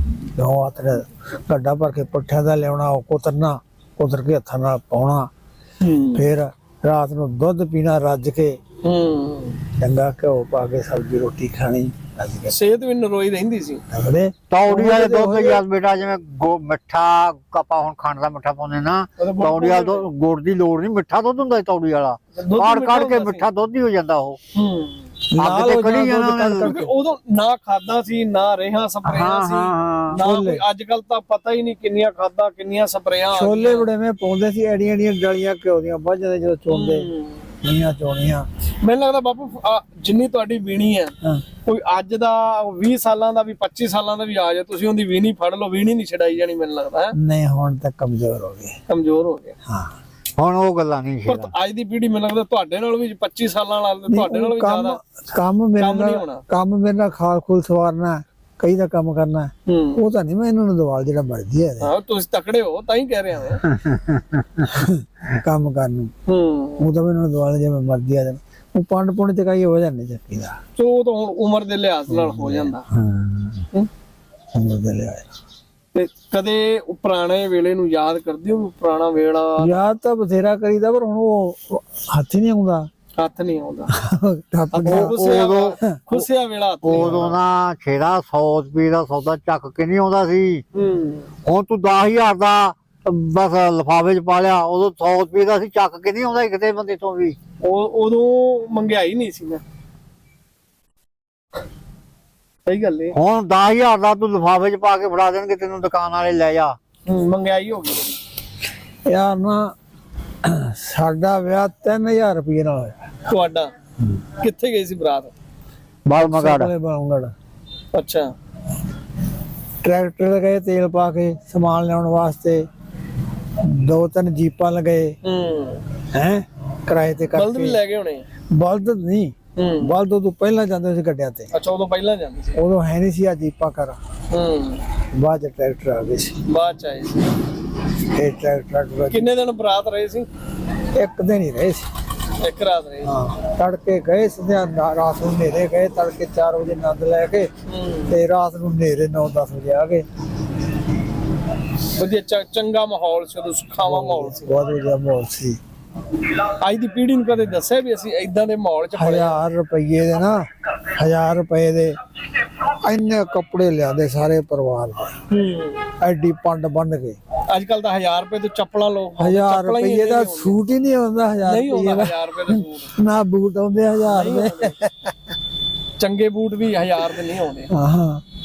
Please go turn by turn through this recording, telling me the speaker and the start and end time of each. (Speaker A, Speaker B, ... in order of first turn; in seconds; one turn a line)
Speaker A: 0.3-5.3
Speaker B: 5.8-6.3
Speaker A: 6.1-8.6
Speaker B: 8.8-9.6
Speaker A: 9.8-12.6
Speaker B: 12.5-13.8
Speaker A: 13.9-15.6
Speaker C: 14.5-24.4
Speaker B: 19.2-20.1
Speaker B: 22.3-23.5
Speaker B: 24.5-25.0
Speaker A: 25.3-26.9
Speaker C: 25.4-26.8
Speaker B: 26.6-33.9
Speaker C: 29.0-30.2
Speaker A: 30.1-30.6
Speaker A: 33.3-37.1
Speaker B: 36.7-37.5
Speaker A: 37.6-38.5
Speaker B: 38.8-41.1
Speaker B: 41.6-47.1
Speaker A: 47.1-48.8
Speaker B: 48.9-49.5
Speaker C: 50.4-51.5
Speaker B: 51.3-55.0
Speaker A: 54.1-61.9
Speaker B: 55.8-56.4
Speaker B: 59.7-60.0
Speaker B: 61.8-63.6
Speaker C: 63.9-64.6
Speaker A: 64.7-66.1
Speaker B: 66.3-66.8
Speaker A: 66.8-70.6
Speaker B: 70.8-72.8
Speaker A: 72.1-72.7
Speaker C: 73.1-73.6
Speaker A: 74.5-75.2
Speaker B: 75.9-79.7
Speaker A: 79.6-82.9
Speaker B: 83.2-83.9
Speaker A: 83.9-85.3
Speaker B: 84.7-87.3
Speaker C: 84.9-85.8
Speaker A: 86.8-87.3
Speaker C: 86.8-90.6
Speaker B: 90.7-91.3
Speaker C: 91.4-97.3
Speaker B: 97.6-99.6
Speaker B: 102.7-103.1
Speaker C: 103.1-106.8
Speaker B: 107.1-108.2
Speaker A: 109.1-109.7
Speaker A: 110.4-113.0
Speaker B: 113.3-113.7
Speaker B: 114.4-115.3
Speaker C: 116.0-116.7
Speaker A: 116.2-117.3
Speaker B: 117.9-118.3
Speaker A: 119.8-122.6
Speaker A: 123.6-125.2
Speaker B: 125.2-125.8
Speaker A: 126.1-127.8
Speaker B: 127.3-128.2
Speaker A: 128.6-131.5
Speaker B: 129.6-129.9
Speaker B: 131.5-132.6
Speaker A: 132.6-134.0
Speaker B: 134.3-134.8
Speaker A: 135.1-136.4
Speaker B: 136.5-137.2
Speaker A: 138.1-139.3
Speaker B: 139.1-140.3
Speaker A: 140.9-141.9
Speaker B: 142.4-143.1
Speaker A: 143.0-147.5
Speaker B: 147.7-148.2
Speaker A: 148.1-150.0
Speaker B: 151.9-154.5
Speaker A: 153.8-155.6
Speaker B: 156.6-159.4
Speaker A: 158.9-161.9
Speaker A: 162.7-165.1
Speaker B: 165.3-165.9
Speaker A: 166.0-167.2
Speaker B: 167.5-170.6
Speaker A: 169.2-175.1
Speaker B: 171.4-172.9
Speaker B: 174.0-174.7
Speaker B: 176.0-177.7
Speaker A: 177.7-178.2